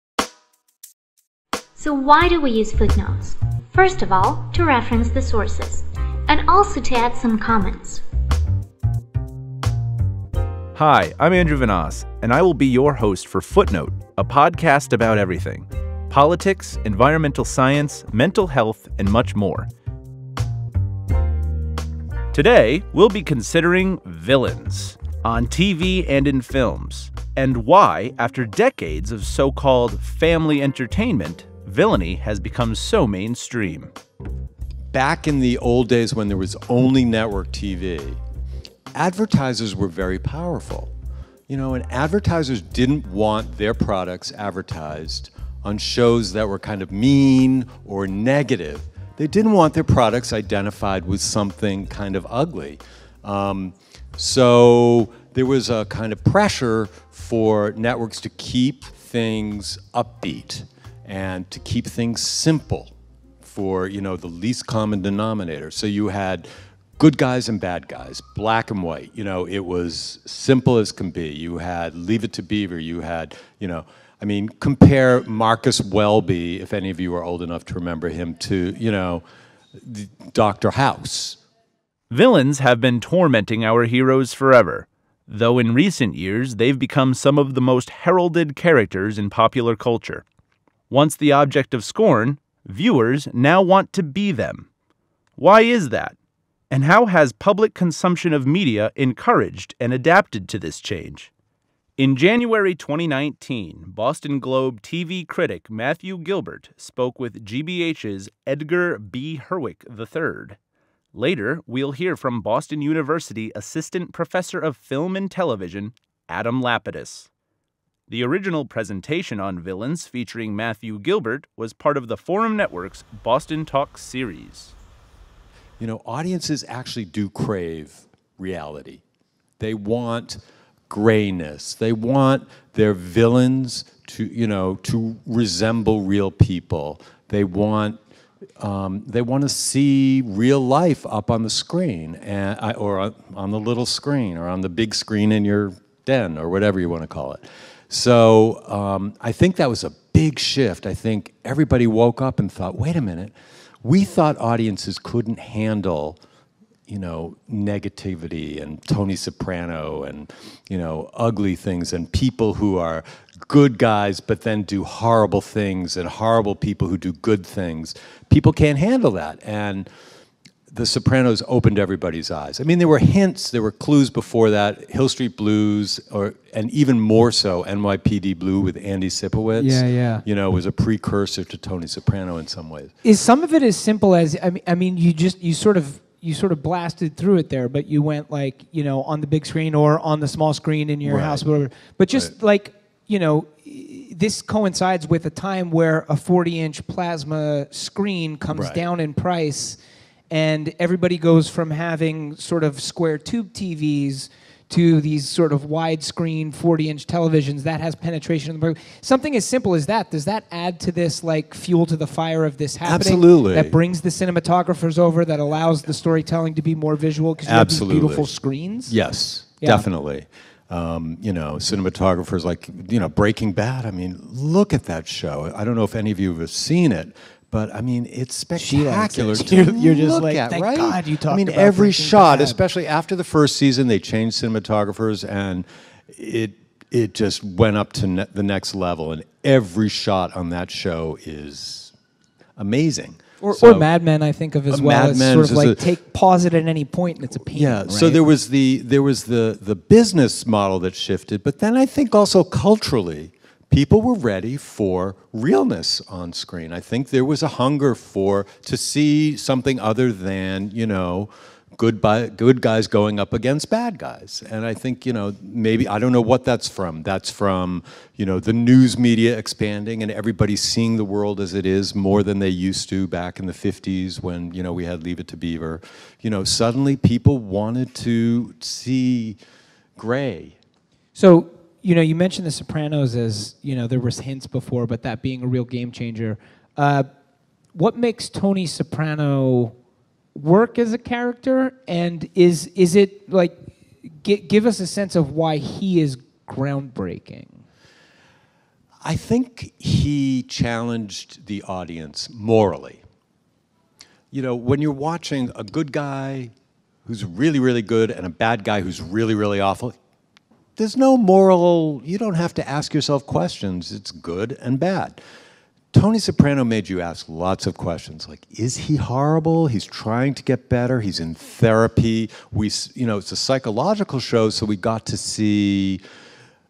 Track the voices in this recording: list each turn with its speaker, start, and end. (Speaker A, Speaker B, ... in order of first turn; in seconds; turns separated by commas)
Speaker A: 1.8-8.0, Speaker B: 10.8-19.7, Speaker B: 22.3-33.9, Speaker C: 34.9-38.2, Speaker C: 38.9-40.9, Speaker C: 41.5-79.2, Speaker C: 79.8-81.4, Speaker B: 82.1-90.2, Speaker B: 90.9-94.7, Speaker B: 95.4-96.2, Speaker B: 96.7-101.3, Speaker B: 102.0-110.6, Speaker B: 111.1-117.3, Speaker B: 118.1-124.7, Speaker C: 125.8-129.0, Speaker C: 129.6-138.0, Speaker C: 138.6-156.2, Speaker C: 156.9-169.9, Speaker C: 170.7-182.9, Speaker D: 179.6-180.2, Speaker D: 183.0-219.9, Speaker C: 191.0-191.5, Speaker C: 192.1-192.3, Speaker C: 198.5-198.9, Speaker C: 212.8-213.8, Speaker C: 217.4-218.3, Speaker C: 218.8-241.9, Speaker D: 228.6-232.6, Speaker C: 242.6-243.9, Speaker D: 243.4-248.3, Speaker C: 244.7-245.9, Speaker C: 247.4-279.4, Speaker C: 280.0-280.6, Speaker D: 281.1-287.1, Speaker D: 287.7-289.8, Speaker D: 290.4-297.6, Speaker C: 299.0-303.0, Speaker C: 304.3-306.5, Speaker C: 307.1-309.9, Speaker C: 310.8-315.2, Speaker C: 315.9-326.0